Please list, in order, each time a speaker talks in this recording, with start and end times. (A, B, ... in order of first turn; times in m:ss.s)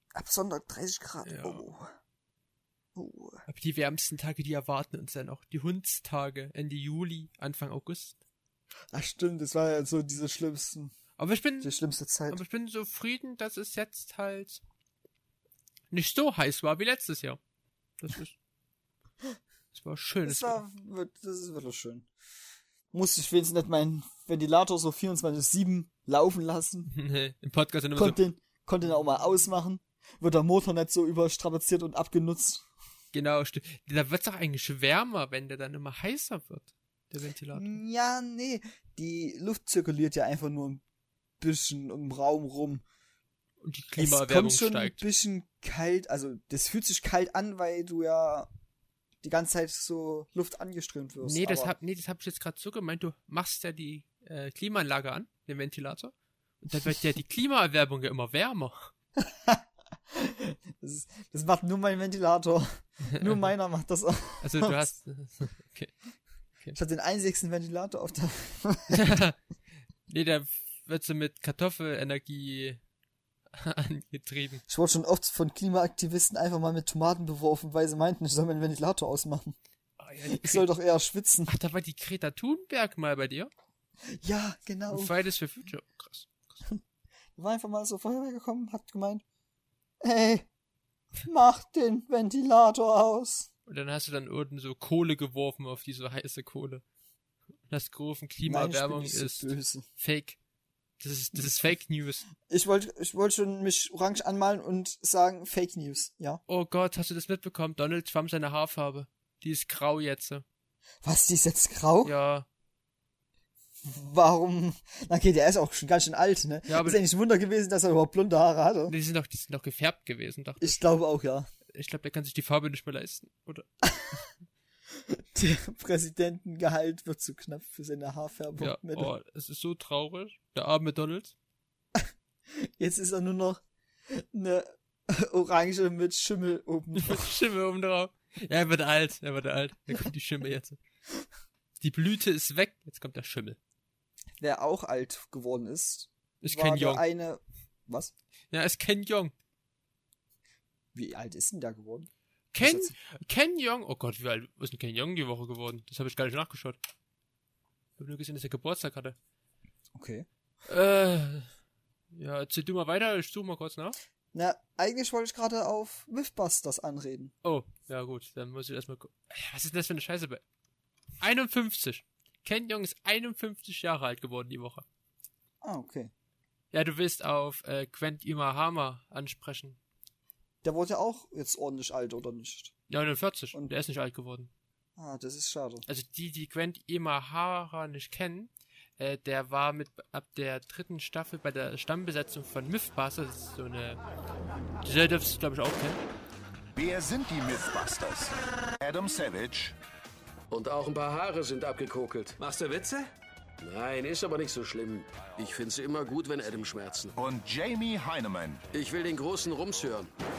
0:00.1-0:01.9 A
0:01.2-0:01.6 B
0:02.9-0:03.4 A
0:03.5-0:08.2 B
0:08.9-0:10.9 A
0:11.2-0:11.8 B
0:11.6-0:12.4 A
0:12.3-0:14.6 B
0:15.9-0:17.4 B
0:18.0-0:18.3 B
0:19.7-0:20.6 B
0:20.2-0:22.1 A
0:22.9-0:26.9 A
0:26.9-0:28.2 B
0:28.0-0:32.6 A
0:33.1-0:37.8 B
0:37.5-0:40.8 A
0:41.4-0:42.8 A
0:43.6-0:45.0 B
0:44.0-0:48.5 A
0:49.2-0:51.7 A
0:51.2-0:58.9 B
0:59.2-1:04.9 A
1:04.4-1:05.9 B
1:06.7-1:09.0 A
1:08.9-1:09.4 B
1:10.1-1:12.8 B
1:13.5-1:14.6 B
1:14.7-1:19.6 A
1:20.0-1:20.7 B
1:20.3-1:21.5 A
1:21.5-1:23.5 B
1:24.1-1:25.1 A
1:24.9-1:26.6 B
1:27.4-1:29.2 A
1:30.0-1:30.5 A
1:31.2-1:33.5 A
1:33.7-1:36.8 B
1:37.7-1:40.4 B
1:38.4-1:39.8 A
1:41.0-1:42.2 B
1:42.4-1:46.4 A
1:46.5-1:50.4 B
1:51.0-1:52.1 A
1:52.0-1:52.5 B
1:53.8-1:58.9 A
1:56.7-1:57.0 B
1:58.9-2:00.8 B
2:00.6-2:01.5 A
2:01.7-2:03.7 B
2:03.8-2:04.1 A
2:05.1-2:09.1 A
2:08.6-2:11.3 B
2:12.0-2:17.3 A
2:17.0-2:20.8 B
2:21.8-2:23.6 B
2:24.4-2:28.1 A
2:26.4-2:27.0 B
2:28.5-2:29.3 B
2:30.9-2:32.1 A
2:32.5-2:36.8 B
2:32.6-2:32.9 A
2:38.0-2:39.2 B
2:39.9-2:40.3 A
2:40.6-2:41.5 B
2:42.1-2:44.0 B
2:44.3-2:47.3 A
2:47.4-2:50.4 B
2:51.2-2:54.8 B
2:55.6-2:56.1 A
2:56.7-2:59.8 B
3:00.6-3:02.7 A
3:02.9-3:04.5 B
3:05.0-3:05.8 A
3:05.9-3:14.0 B
3:14.8-3:16.0 B
3:16.8-3:19.8 C
3:20.5-3:27.2 D
3:27.2-3:28.6 C
3:28.7-3:30.1 D